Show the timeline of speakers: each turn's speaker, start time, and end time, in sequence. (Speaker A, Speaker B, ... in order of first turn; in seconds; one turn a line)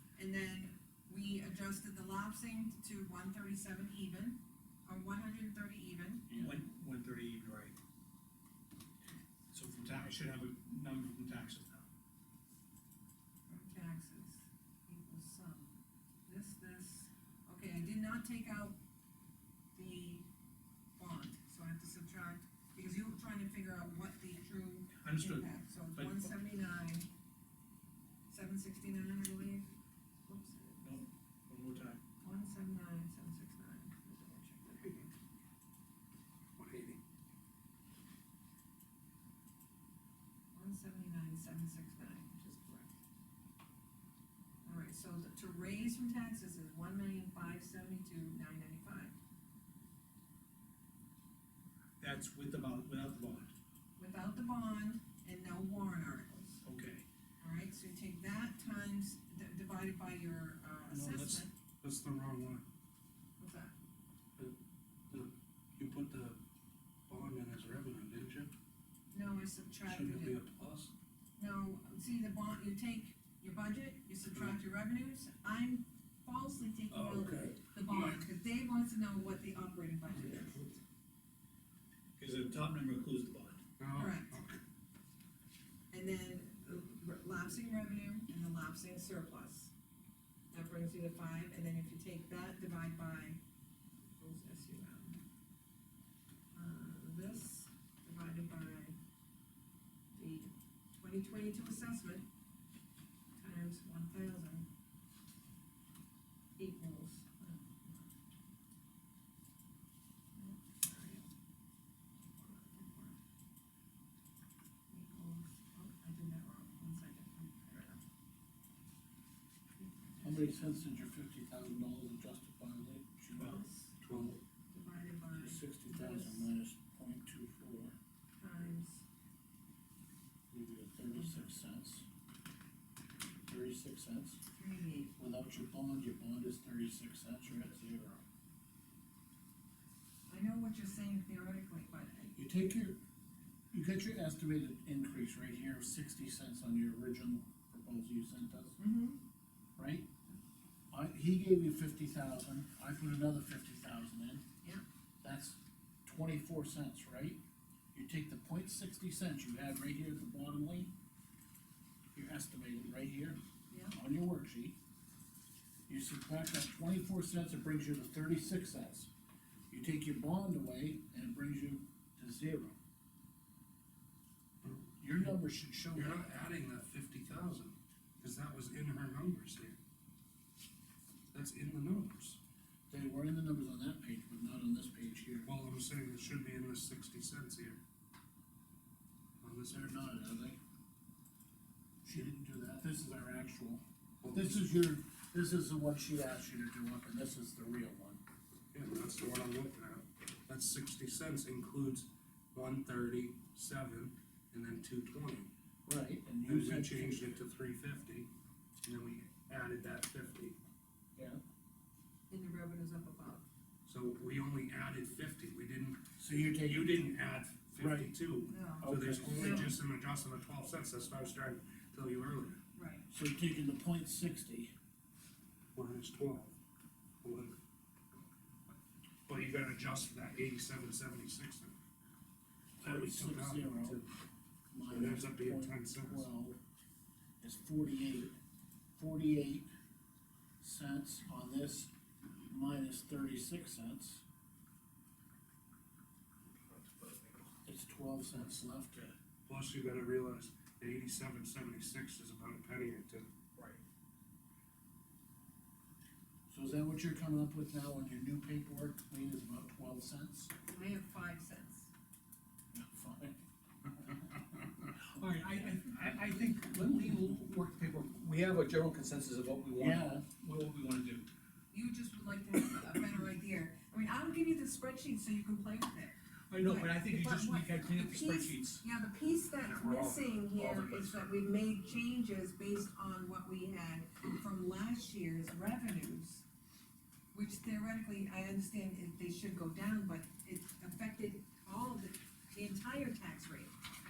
Speaker A: 0.2-6.4
Speaker B: 6.3-6.6
Speaker C: 6.4-7.8
Speaker C: 9.5-11.9
Speaker A: 13.5-18.8
Speaker A: 19.8-20.3
Speaker A: 21.0-27.1
Speaker C: 25.0-26.3
Speaker A: 28.3-29.7
Speaker A: 30.3-31.0
Speaker C: 30.8-32.0
Speaker A: 32.2-35.1
Speaker D: 36.6-37.0
Speaker A: 40.5-43.0
Speaker A: 44.6-49.2
Speaker C: 52.0-53.5
Speaker A: 54.0-56.6
Speaker C: 56.6-57.0
Speaker A: 57.4-61.5
Speaker D: 60.9-62.6
Speaker A: 63.4-63.7
Speaker D: 65.1-66.4
Speaker D: 67.1-68.5
Speaker A: 69.1-70.4
Speaker D: 69.9-70.9
Speaker A: 71.4-80.7
Speaker D: 74.3-74.6
Speaker D: 76.9-78.2
Speaker D: 80.1-80.7
Speaker C: 82.2-83.6
Speaker D: 83.8-84.6
Speaker A: 83.9-84.4
Speaker A: 85.9-89.7
Speaker A: 90.5-93.4
Speaker A: 94.2-95.2
Speaker A: 96.5-99.0
Speaker A: 100.1-102.3
Speaker A: 103.4-104.7
Speaker A: 106.6-108.2
Speaker A: 110.3-111.3
Speaker A: 112.4-113.2
Speaker A: 114.9-118.0
Speaker A: 119.8-120.9
Speaker B: 120.2-124.4
Speaker A: 123.4-124.0
Speaker D: 124.0-124.4
Speaker A: 124.7-126.5
Speaker B: 125.4-128.0
Speaker A: 128.4-129.0
Speaker B: 130.5-132.1
Speaker A: 131.1-131.5
Speaker B: 133.5-134.4
Speaker A: 134.5-135.2
Speaker B: 135.2-138.2
Speaker A: 140.3-142.4
Speaker B: 142.4-143.0
Speaker B: 143.7-148.8
Speaker A: 148.8-149.2
Speaker B: 149.8-150.1
Speaker B: 150.9-154.4
Speaker B: 155.2-157.4
Speaker B: 157.9-160.9
Speaker B: 162.1-163.4
Speaker A: 163.7-164.0
Speaker B: 163.9-164.8
Speaker B: 165.9-169.1
Speaker B: 169.7-172.8
Speaker D: 174.6-175.4
Speaker B: 175.0-176.3
Speaker D: 175.9-179.8
Speaker D: 181.3-182.4
Speaker B: 182.9-185.5
Speaker D: 185.4-187.8
Speaker D: 189.4-190.2
Speaker B: 189.7-190.6
Speaker B: 192.0-198.2
Speaker D: 194.2-194.7
Speaker D: 198.7-205.5
Speaker B: 205.9-207.4
Speaker D: 206.4-208.3
Speaker D: 208.8-210.6
Speaker B: 211.2-211.4
Speaker A: 212.3-213.4
Speaker D: 213.9-222.6
Speaker B: 216.2-217.1
Speaker B: 217.8-218.2
Speaker A: 218.5-219.7
Speaker B: 218.8-219.7
Speaker A: 222.7-223.1
Speaker B: 223.1-224.7
Speaker D: 225.8-226.6
Speaker D: 227.2-227.6
Speaker D: 229.3-231.8
Speaker B: 232.8-234.0
Speaker D: 232.8-234.1
Speaker B: 234.7-236.6
Speaker D: 234.9-236.3
Speaker B: 237.4-238.3
Speaker B: 239.0-239.7
Speaker B: 240.6-241.9
Speaker B: 242.5-244.2
Speaker C: 246.7-247.5
Speaker B: 247.7-249.0
Speaker D: 249.5-253.3
Speaker C: 253.6-253.8
Speaker B: 256.5-260.5
Speaker A: 260.7-261.9
Speaker B: 262.7-263.4
Speaker C: 264.9-271.3
Speaker B: 269.8-270.2
Speaker A: 271.7-286.4
Speaker C: 276.5-278.8
Speaker D: 279.6-281.3
Speaker A: 287.3-293.8